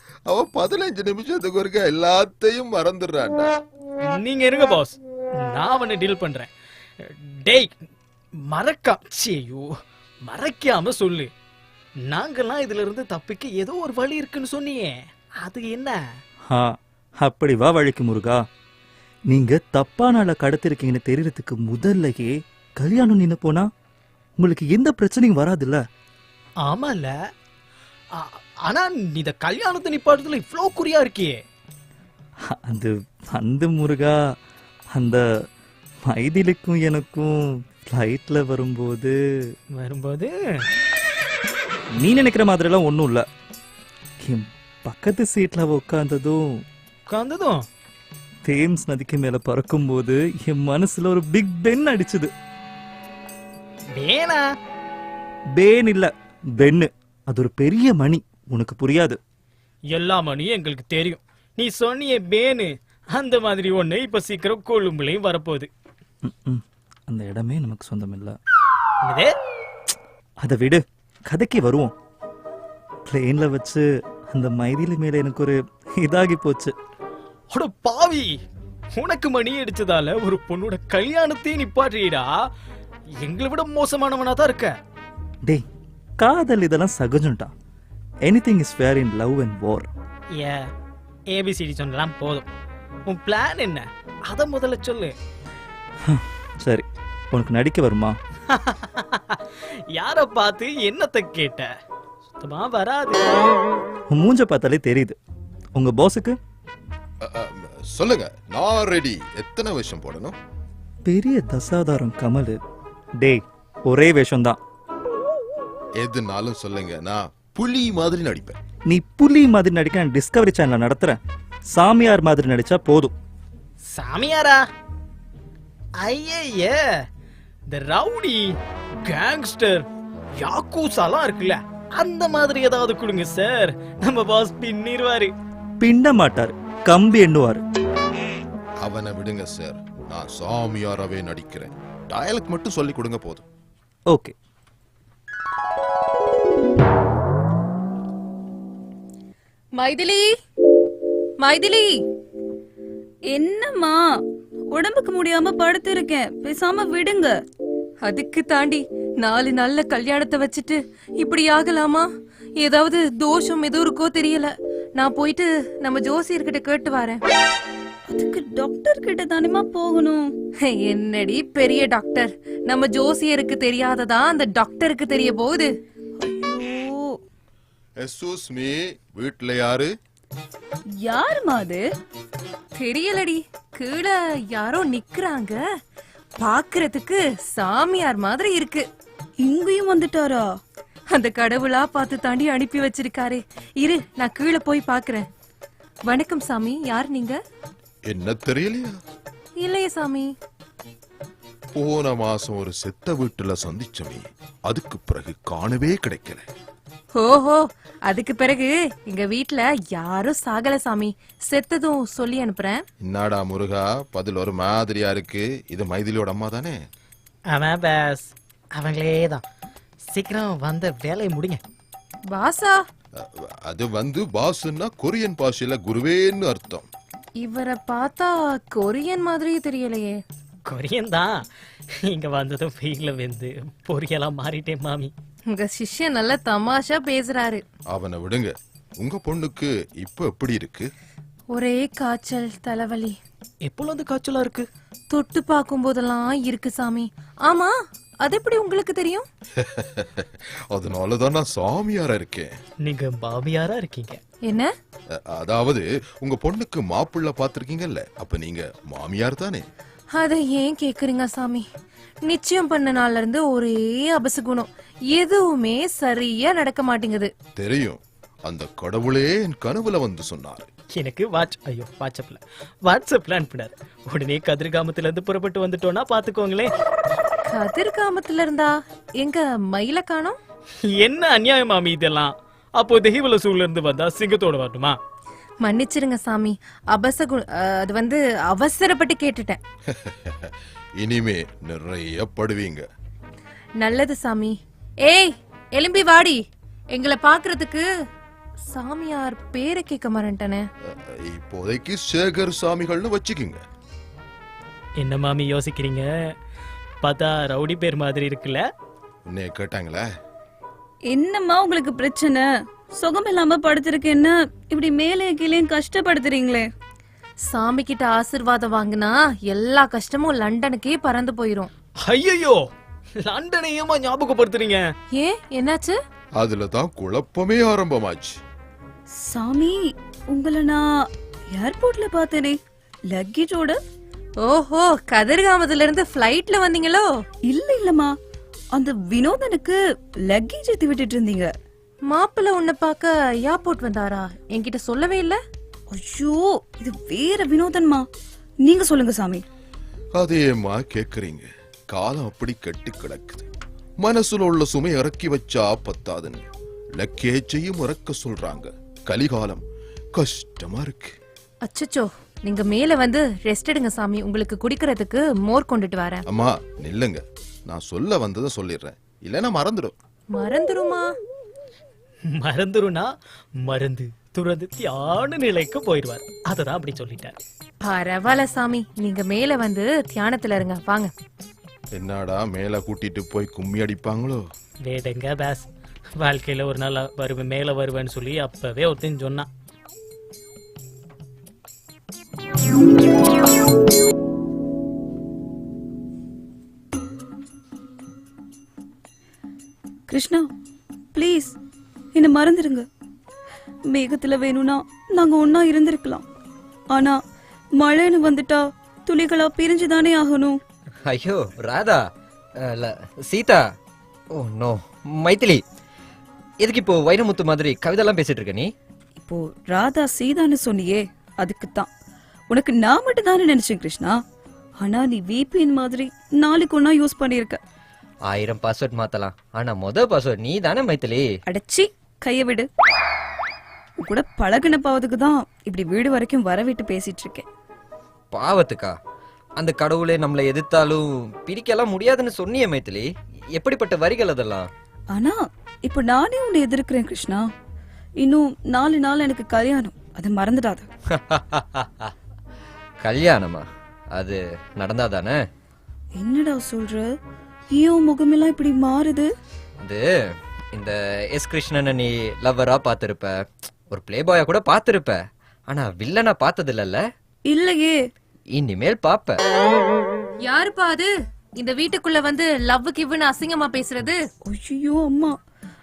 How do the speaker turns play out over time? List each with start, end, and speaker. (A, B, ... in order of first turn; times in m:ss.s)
0:00.3-0:03.5 A
0:04.0-0:07.7 B
0:08.5-0:11.3 B
0:12.1-0:16.0 B
0:16.5-0:18.4 C
0:19.3-0:23.7 C
0:24.4-0:25.8 C
0:26.6-0:27.2 B
0:28.1-0:31.4 B
0:32.4-0:34.3 C
0:34.9-0:35.2 C
0:36.1-0:39.5 C
0:39.8-0:40.6 B
0:42.0-0:43.2 C
0:44.2-0:46.6 C
0:47.1-0:47.6 B
0:48.4-0:52.3 C
0:53.9-0:54.4 B
0:55.6-0:59.2 C
0:59.9-1:05.7 B
1:06.2-1:08.4 C
1:09.0-1:09.3 B
1:10.4-1:11.9 C
1:13.0-1:16.7 C
1:17.5-1:18.4 B
1:18.9-1:22.4 B
1:23.2-1:24.8 B
1:26.2-1:27.5 C
1:28.2-1:29.9 C
1:30.3-1:30.7 B
1:31.3-1:32.5 B
1:33.1-1:35.1 B
1:36.0-1:38.2 C
1:38.5-1:39.4 B
1:39.9-1:41.7 B
1:42.4-1:43.4 B
1:44.1-1:45.2 C
1:45.8-1:46.4 C
1:47.2-1:50.4 A
1:51.0-1:52.6 C
1:53.2-1:54.6 C
1:56.0-1:58.6 A
1:58.9-2:01.2 C
2:01.7-2:03.1 C
2:03.9-2:04.6 B
2:06.0-2:07.0 B
2:07.7-2:09.9 B
2:10.4-2:15.3 B
2:15.8-2:17.6 C
2:18.8-2:23.5 A
2:29.8-2:30.3 D
2:31.4-2:32.0 D
2:33.3-2:34.0 E
2:34.7-2:37.4 E
2:38.0-2:42.1 D
2:42.6-2:47.2 D
2:48.1-2:50.3 E
2:50.6-2:55.7 D
2:56.2-2:57.2 E
2:58.0-2:59.9 A
3:01.0-3:01.8 E
3:02.8-3:05.6 D
3:06.4-3:08.8 D
3:09.4-3:10.5 E
3:11.1-3:15.3 D
3:16.1-3:17.4 D
3:18.1-3:19.0 A
3:19.6-3:20.3 D
3:21.7-3:26.5 A
3:27.1-3:32.8 D
3:33.0-3:36.8 A
3:37.5-3:39.4 B
3:40.1-3:41.6 B
3:42.3-3:42.8 D
3:43.2-3:46.9 A
3:47.4-3:50.2 D
3:50.7-3:51.4 B
3:52.0-3:55.1 B
3:55.5-3:57.6 D
3:57.9-4:00.9 A
4:01.5-4:03.2 D
4:03.7-4:04.7 B
4:05.1-4:09.3 D
4:09.6-4:12.5 A
4:12.8-4:14.2 B
4:14.4-4:14.7 D
4:15.1-4:19.7 A
4:20.1-4:21.7 D
4:22.2-4:27.3 D
4:27.6-4:30.7 A
4:31.0-4:36.7 B
4:37.5-4:40.4 D
4:40.9-4:45.0 B
4:45.6-4:49.6 D
4:49.9-4:52.8 A
4:53.8-4:57.9 D
4:58.7-5:00.6 D
5:00.8-5:03.6 A
5:05.0-5:06.3 B
5:07.0-5:08.6 B
5:09.2-5:10.1 A
5:11.1-5:12.4 E
5:13.0-5:16.7 E
5:17.4-5:21.7 D
5:22.0-5:22.6 B
5:23.2-5:24.9 B
5:25.1-5:26.0 D
5:26.4-5:28.4 A
5:29.2-5:30.8 E
5:31.5-5:32.6 E
5:33.1-5:33.8 E
5:34.4-5:37.1 D
5:37.5-5:38.1 E
5:38.7-5:41.5 E
5:42.1-5:45.4 D
5:45.9-5:48.0 E
5:48.6-5:49.4 E
5:50.2-5:53.5 A
5:54.0-5:59.6 A
6:00.2-6:01.2 A
6:01.6-6:06.2 D
6:06.3-6:09.9 A
6:10.3-6:11.1 D
6:12.3-6:13.1 B
6:13.6-6:17.4 B
6:17.8-6:21.1 D
6:22.0-6:24.4 A
6:24.8-6:29.5 B
6:40.1-6:40.5 E
6:41.1-6:41.6 E
6:42.2-6:42.9 E
6:43.9-6:46.2 E
6:46.9-6:47.2 E
6:47.8-6:50.6 E
6:51.0-6:52.0 F
6:52.6-6:53.6 F
6:54.3-6:55.6 F
6:56.6-6:58.7 F
6:59.2-7:01.9 E
7:02.5-7:04.2 E
7:04.8-7:07.6 E
7:08.3-7:11.3 F
7:11.5-7:12.7 E
7:14.0-7:17.4 E
7:18.3-7:19.0 F
7:19.6-7:24.7 F
7:25.1-7:27.5 E
7:28.2-7:30.9 E
7:31.1-7:32.1 F
7:33.0-7:35.4 F
7:36.2-7:37.1 E
7:37.7-7:39.3 E
7:39.8-7:47.0 F
7:47.5-7:48.0 E
7:48.6-7:49.4 F
7:50.4-7:54.2 D
7:54.5-7:55.4 E